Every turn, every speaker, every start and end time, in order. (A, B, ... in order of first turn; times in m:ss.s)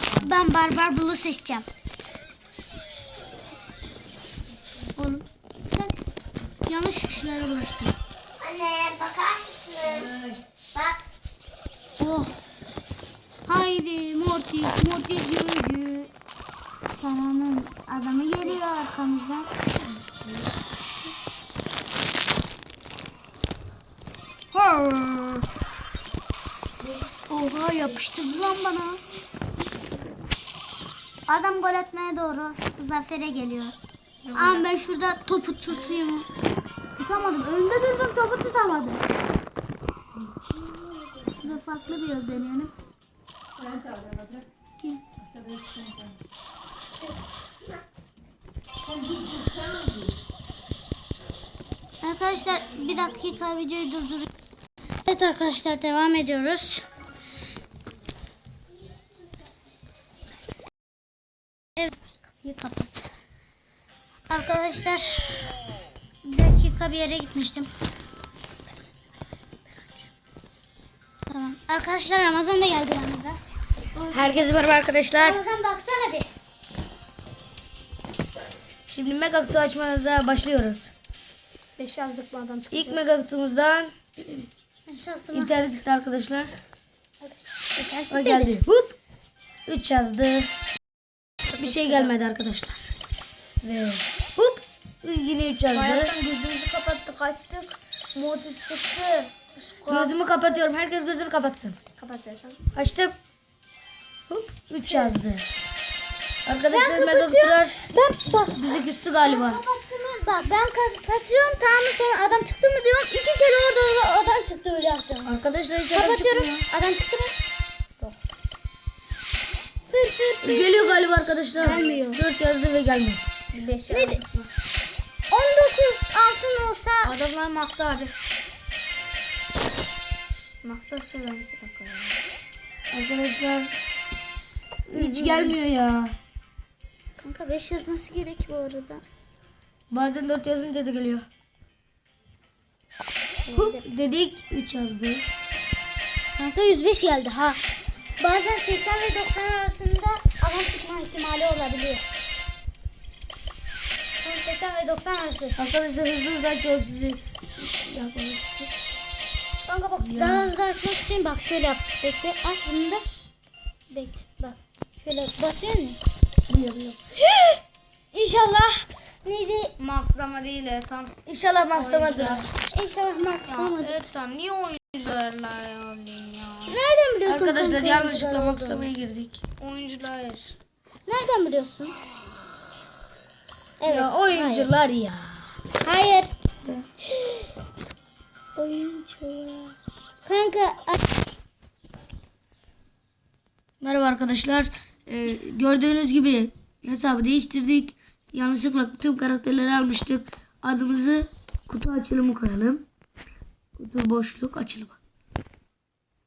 0:00.2-0:01.7 A
0:05.0-0:06.0 A
0:06.6-0:10.1 A
0:12.0-0:12.4 A
0:13.5-0:16.1 A
0:17.0-0:19.5 A
0:24.5-0:25.5 A
0:27.3-0:29.0 A
0:31.3-0:33.8 A
0:34.3-0:36.3 A
0:34.4-0:34.6 B
0:37.0-0:39.0 A
0:41.4-0:42.7 A
0:52.0-0:54.3 A
0:55.0-0:56.8 A
1:01.8-1:03.1 A
1:04.3-1:05.6 A
1:06.2-1:07.7 A
1:11.3-1:13.4 A
1:13.9-1:14.5 A
1:14.1-1:15.4 C
1:15.2-1:16.3 A
1:18.9-1:20.9 C
1:21.8-1:23.0 B
1:22.7-1:24.5 C
1:24.9-1:25.6 A
1:25.3-1:26.6 C
1:27.2-1:28.6 A
1:28.1-1:29.0 C
1:29.7-1:30.5 C
1:31.5-1:32.2 B
1:31.6-1:32.9 C
1:33.6-1:36.1 C
1:35.7-1:40.6 B
1:39.9-1:41.8 C
1:42.0-1:42.6 B
1:42.7-1:43.2 C
1:44.3-1:45.5 C
1:46.4-1:47.8 C
1:46.7-1:55.4 A
1:48.5-1:49.6 C
1:55.2-1:56.6 C
1:55.9-1:57.4 A
1:59.9-2:01.1 A
2:00.4-2:03.2 C
2:01.6-2:02.2 A
2:01.6-2:02.0 B
2:03.5-2:04.5 B
2:03.9-2:04.2 A
2:05.3-2:07.1 A
2:07.0-2:08.1 B
2:10.6-2:12.2 B
2:12.9-2:13.7 C
2:14.9-2:15.6 B
2:14.9-2:16.2 C
2:17.2-2:19.0 A
2:19.9-2:21.3 C
2:23.4-2:23.8 A
2:23.5-2:25.2 C
2:26.4-2:27.6 A
2:28.2-2:32.0 A
2:34.2-2:35.6 A
2:35.6-2:38.7 C
2:39.7-2:40.1 B
2:40.0-2:40.5 C
2:40.1-2:43.0 A
2:43.9-2:46.0 A
2:46.5-2:47.1 C
2:48.1-2:49.7 A
2:49.8-2:51.2 B
2:51.3-2:52.7 C
2:51.7-2:52.5 B
2:52.6-2:54.0 A
2:53.5-2:56.8 B
2:56.7-2:58.8 A
2:57.3-2:59.5 C
2:58.1-2:58.7 B
2:59.6-3:00.6 B
3:01.1-3:02.0 A
3:03.8-3:04.8 A
3:03.8-3:05.5 C
3:05.8-3:06.3 A
3:08.6-3:09.1 A
3:08.8-3:09.7 B
3:10.2-3:11.0 A
3:13.8-3:22.8 C
3:23.8-3:25.0 C